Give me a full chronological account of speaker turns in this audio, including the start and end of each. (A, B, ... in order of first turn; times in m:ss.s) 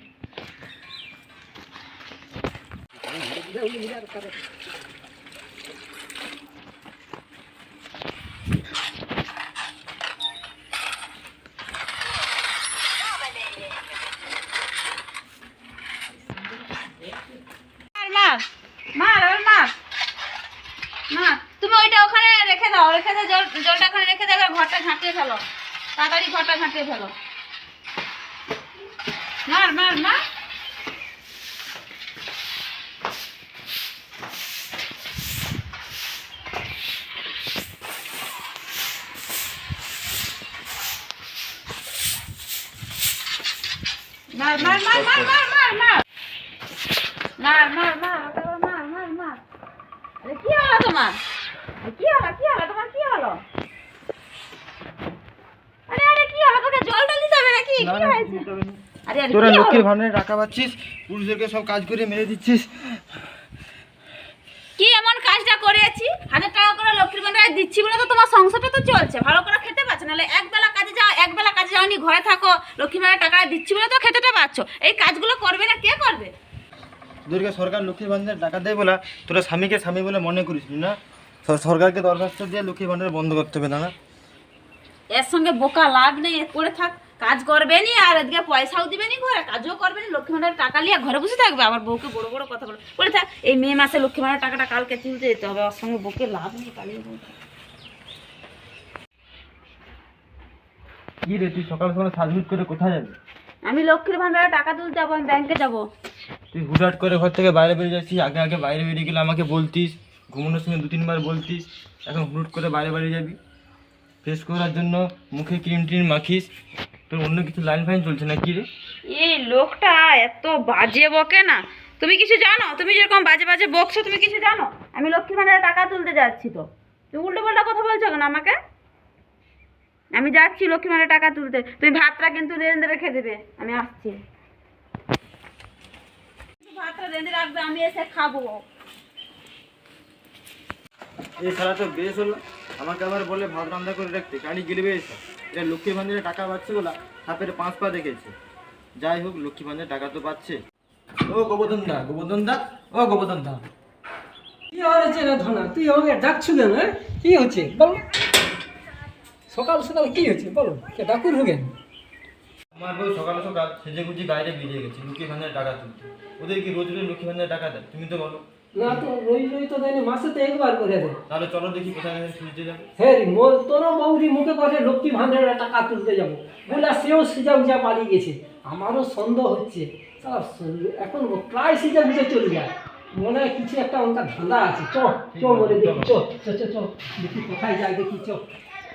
0:03.2-0:04.3 A
0:18.0-0:19.7 B
0:21.1-0:25.4 B
0:26.0-0:27.1 B
0:29.5-0:30.2 B
0:44.3-0:46.0 B
0:44.6-0:45.3 C
0:47.4-0:49.4 B
0:50.2-0:51.2 B
0:51.8-0:53.4 B
0:55.9-0:58.4 B
0:57.8-0:58.8 C
0:59.1-0:59.8 B
0:59.3-1:03.0 C
1:04.8-1:16.3 B
1:17.3-1:23.9 C
1:25.1-1:37.3 B
1:41.2-1:43.2 C
1:43.7-1:45.8 B
1:46.5-1:53.4 C
1:54.2-1:56.5 C
1:57.1-1:58.7 C
1:59.1-2:08.6 B
2:10.2-2:14.2 B
2:16.6-2:18.6 B
2:21.4-2:28.3 C
2:29.0-2:30.6 C
2:31.3-2:33.6 C
2:34.7-2:38.0 A
2:39.5-2:41.7 A
2:42.8-2:49.0 C
2:48.8-2:51.2 A
2:51.3-2:52.9 C
2:53.0-3:08.4 A
3:05.3-3:06.2 C